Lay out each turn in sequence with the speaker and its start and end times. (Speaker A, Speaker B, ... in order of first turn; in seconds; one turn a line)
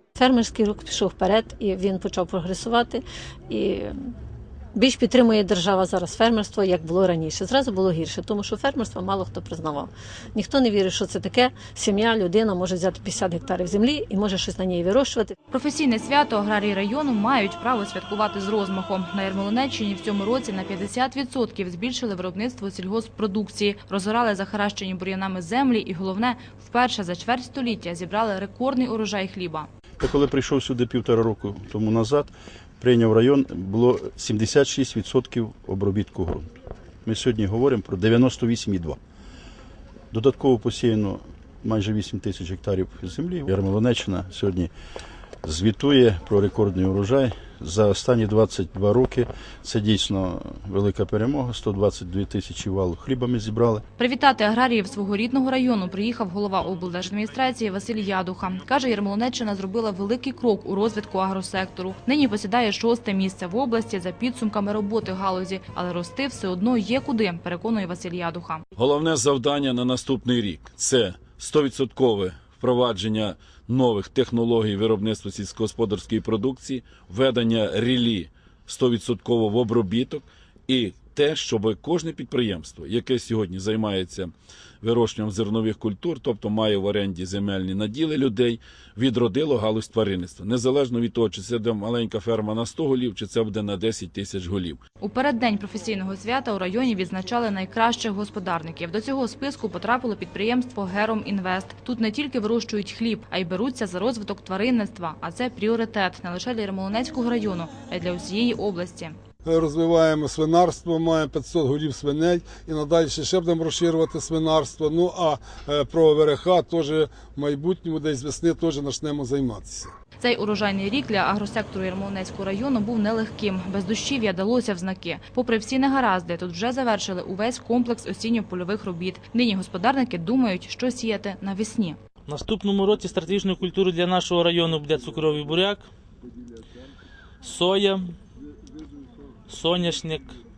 Speaker A: 0.2-4.1
Speaker A: 4.7-15.4
Speaker B: 15.5-29.7
Speaker C: 30.0-36.5
Speaker C: 37.0-39.0
Speaker C: 40.1-44.7
Speaker C: 45.4-53.8
Speaker B: 54.0-68.6
Speaker D: 68.8-94.8
Speaker B: 95.0-109.2
Speaker E: 109.5-119.9
Speaker B: 120.2-132.0
Speaker F: 132.3-135.9
Speaker F: 137.4-138.2
Speaker F: 139.5-140.4